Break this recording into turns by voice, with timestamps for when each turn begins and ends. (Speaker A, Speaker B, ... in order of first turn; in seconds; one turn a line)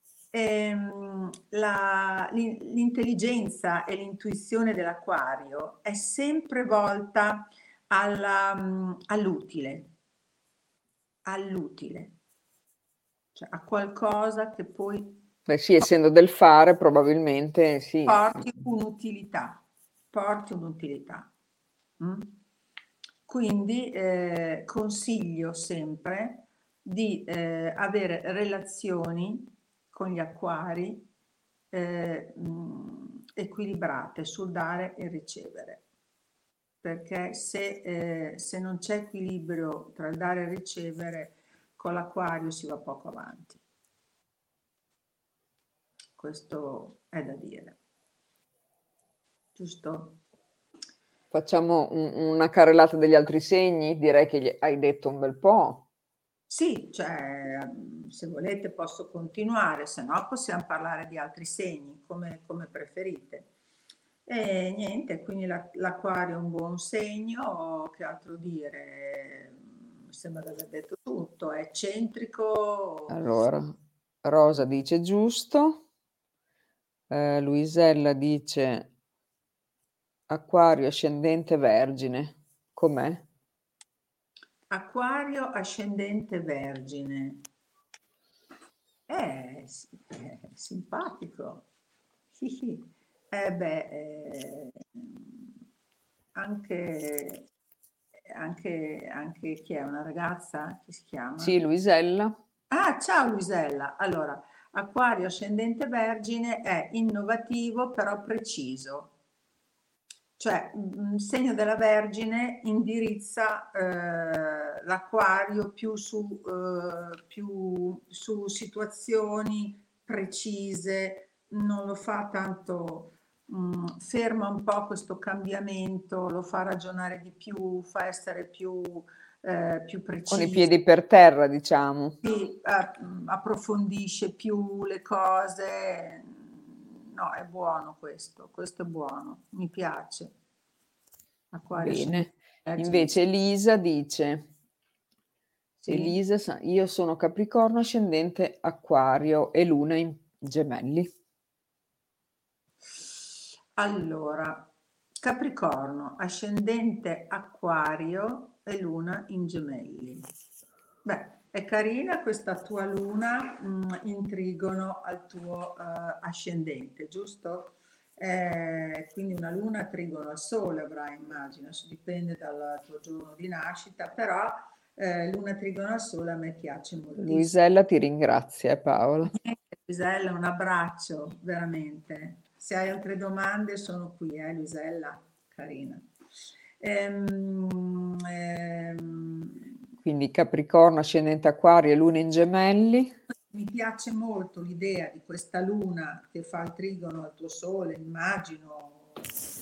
Speaker A: 0.3-9.9
Speaker A: 11.2-12.2
Speaker A: 13.3-15.2
Speaker B: 15.5-18.5
Speaker A: 18.1-21.3
Speaker A: 22.0-22.4
Speaker A: 23.3-31.1
Speaker A: 31.7-35.8
Speaker A: 36.8-43.6
Speaker A: 46.2-47.8
Speaker A: 49.5-50.2
Speaker B: 51.3-55.8
Speaker A: 56.5-63.5
Speaker A: 64.2-73.2
Speaker B: 73.1-75.8
Speaker B: 77.1-78.9
Speaker B: 80.3-83.2
Speaker A: 84.7-87.4
Speaker A: 89.1-91.7
Speaker A: 92.3-95.4
Speaker A: 96.3-97.5
Speaker A: 98.3-101.5
Speaker B: 101.4-102.4
Speaker A: 102.7-109.1
Speaker A: 110.4-130.7
Speaker B: 130.3-132.2
Speaker A: 132.2-140.3
Speaker A: 141.5-143.2
Speaker B: 141.8-144.5
Speaker A: 145.8-146.2
Speaker B: 145.9-151.1
Speaker A: 153.8-154.7
Speaker A: 155.2-160.2
Speaker A: 161.0-177.5
Speaker B: 177.2-179.3
Speaker A: 179.2-186.1
Speaker A: 186.8-189.6
Speaker B: 190.0-193.1
Speaker A: 193.5-199.2